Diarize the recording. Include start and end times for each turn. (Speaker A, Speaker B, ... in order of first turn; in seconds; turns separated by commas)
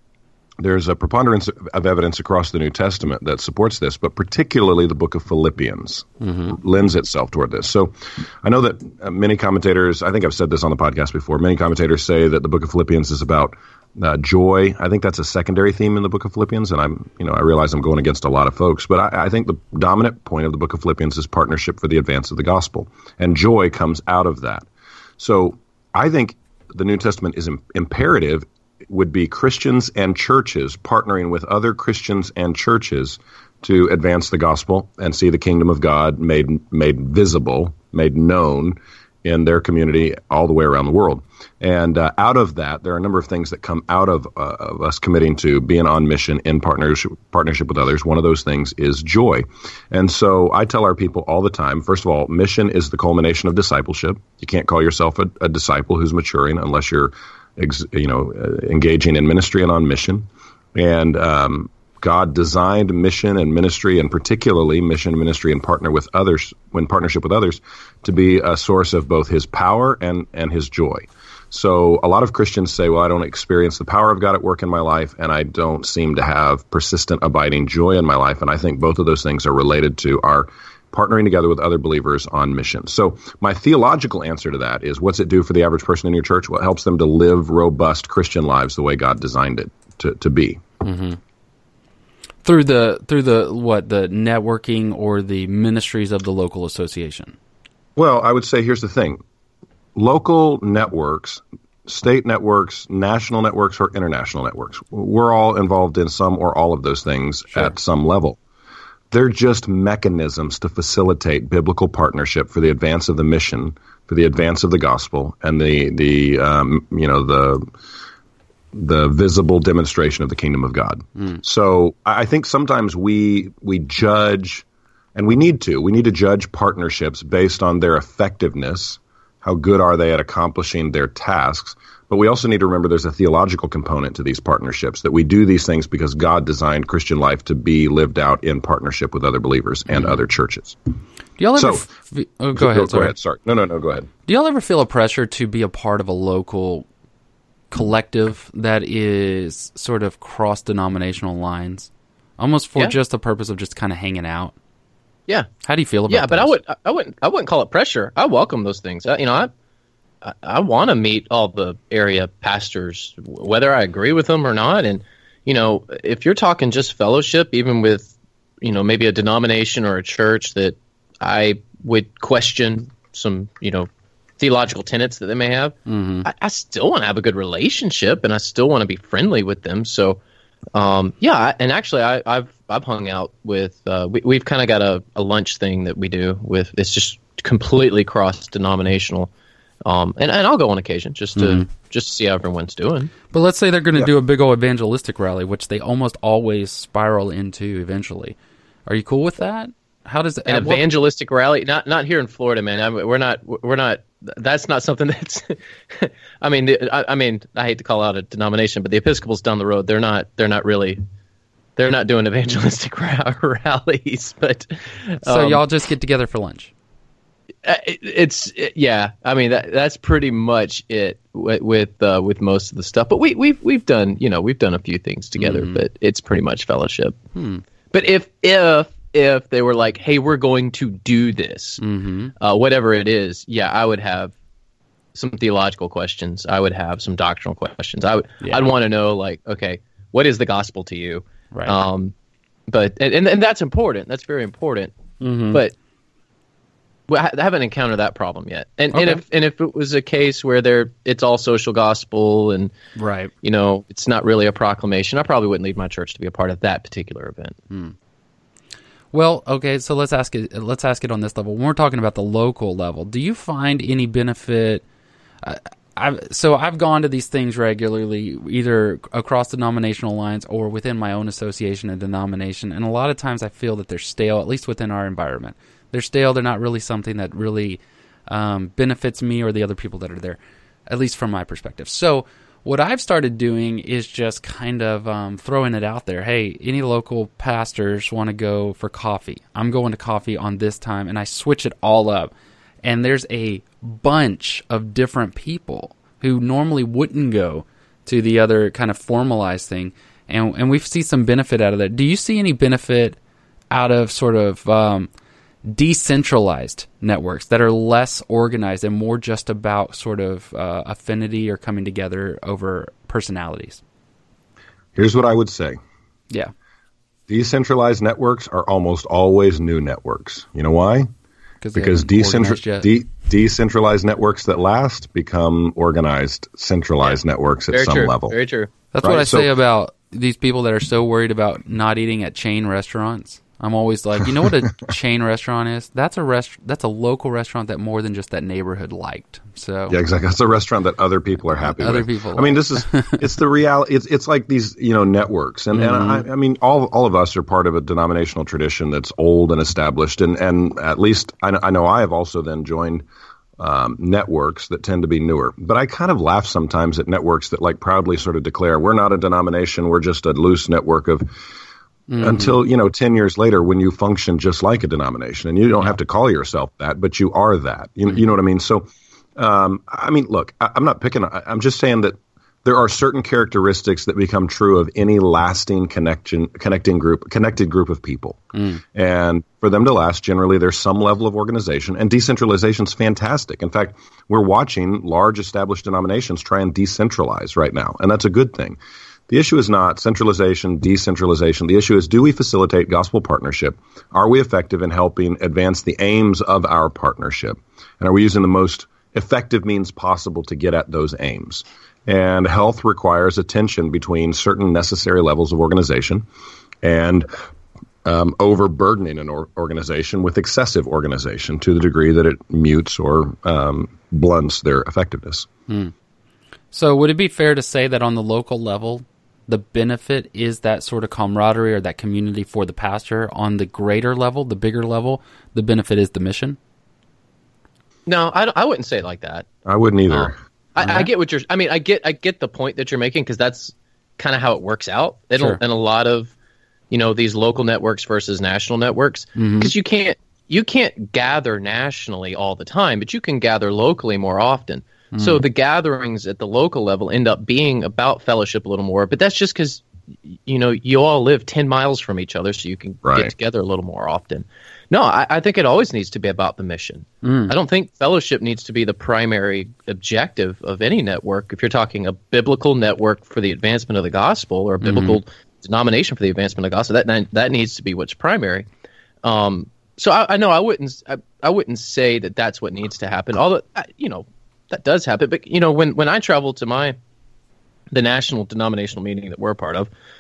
Speaker A: 0.6-24.7, Speaker B: 6.2-6.5, Speaker A: 25.2-90.6, Speaker B: 90.8-91.2, Speaker B: 92.5-97.4, Speaker A: 98.0-99.2, Speaker A: 100.0-108.4, Speaker A: 109.1-117.7, Speaker A: 118.7-140.8, Speaker B: 141.4-143.2, Speaker A: 141.6-141.9, Speaker A: 142.6-144.1, Speaker B: 144.3-146.9, Speaker B: 147.7-154.6, Speaker B: 155.6-156.6, Speaker C: 156.1-159.5, Speaker C: 160.2-173.9, Speaker C: 174.4-180.2, Speaker B: 175.9-176.3, Speaker C: 180.7-189.3, Speaker C: 189.8-193.1, Speaker B: 191.4-191.7, Speaker B: 193.3-198.4, Speaker B: 198.9-200.9, Speaker C: 200.5-211.0, Speaker C: 211.8-215.6, Speaker B: 215.2-216.7, Speaker C: 217.6-227.2, Speaker B: 225.4-225.8, Speaker B: 227.3-227.6, Speaker C: 227.9-231.8, Speaker B: 231.8-232.3, Speaker C: 232.4-234.3, Speaker C: 235.2-242.1, Speaker B: 238.4-238.7, Speaker C: 242.7-244.9, Speaker B: 245.2-245.6, Speaker C: 247.1-252.7, Speaker B: 248.9-249.2, Speaker B: 253.0-253.3, Speaker C: 253.4-257.6, Speaker B: 257.7-257.9, Speaker B: 259.1-264.8, Speaker B: 265.4-292.3, Speaker B: 292.8-303.2, Speaker B: 303.7-305.1, Speaker B: 305.7-313.8, Speaker A: 315.0-315.8, Speaker A: 317.3-321.1, Speaker B: 321.6-322.9, Speaker A: 321.8-328.4, Speaker C: 327.7-328.7, Speaker B: 328.9-340.0, Speaker A: 329.0-329.5, Speaker A: 339.9-353.1, Speaker B: 341.7-343.3, Speaker B: 345.7-346.3, Speaker A: 353.6-361.3, Speaker B: 362.1-362.6, Speaker A: 362.2-406.2, Speaker B: 378.5-378.8, Speaker A: 406.8-407.3, Speaker A: 408.0-415.5, Speaker B: 415.7-415.9, Speaker B: 416.7-426.6, Speaker C: 428.1-429.5, Speaker A: 429.6-430.4, Speaker C: 430.1-436.3, Speaker B: 430.8-431.1, Speaker C: 436.9-468.7, Speaker B: 439.4-439.7, Speaker B: 445.1-445.4, Speaker A: 453.0-453.3, Speaker B: 457.2-457.5, Speaker B: 464.8-465.2, Speaker C: 469.2-477.0, Speaker C: 477.9-479.9